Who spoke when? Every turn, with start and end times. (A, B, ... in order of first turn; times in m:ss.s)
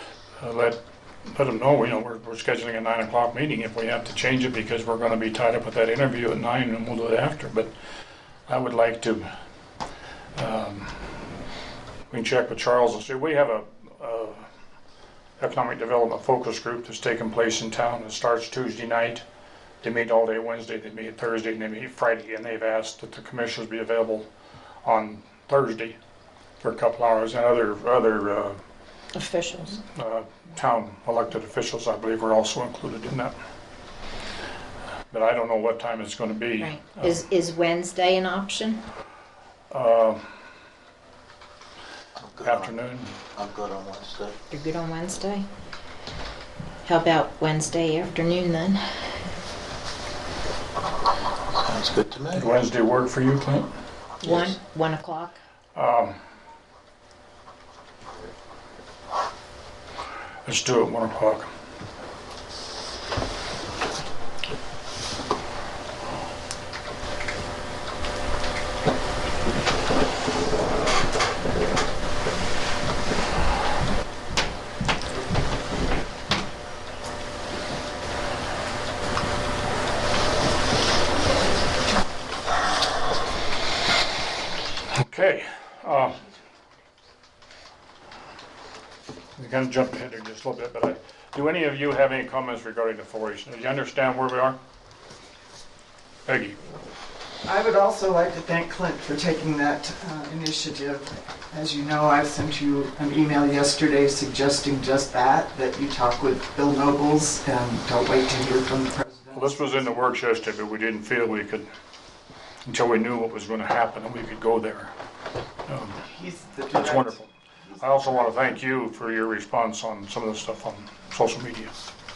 0:00.4-0:00.8 A
0:01.3-0:07.7 A
0:08.5-0:09.3 A
0:10.4-0:11.0 A
0:12.1-0:14.4 A
0:15.4-0:19.2 A
0:19.8-0:24.3 A
0:24.8-0:26.0 A
0:26.6-0:28.6 A
0:29.1-0:29.8 B
0:29.9-0:33.4 A
0:35.1-0:37.2 A
0:36.6-0:38.8 B
0:39.7-0:40.2 A
0:42.2-0:42.7 C
0:42.4-0:43.2 A
0:43.3-0:44.3 C
0:44.5-0:45.4 B
0:46.8-0:48.8 B
0:51.6-0:52.6 C
0:52.3-0:53.7 A
0:54.2-0:55.4 B
0:55.7-0:56.2 A
1:00.4-1:01.5 A
1:24.9-1:26.2 A
1:29.4-1:34.6 A
1:36.3-1:36.6 A
1:37.4-1:50.1 D
1:49.3-1:51.7 A
1:52.6-1:54.9 A
1:55.7-1:56.0 A
1:56.0-1:57.2 D
1:56.7-2:01.7 A
1:57.7-1:58.2 D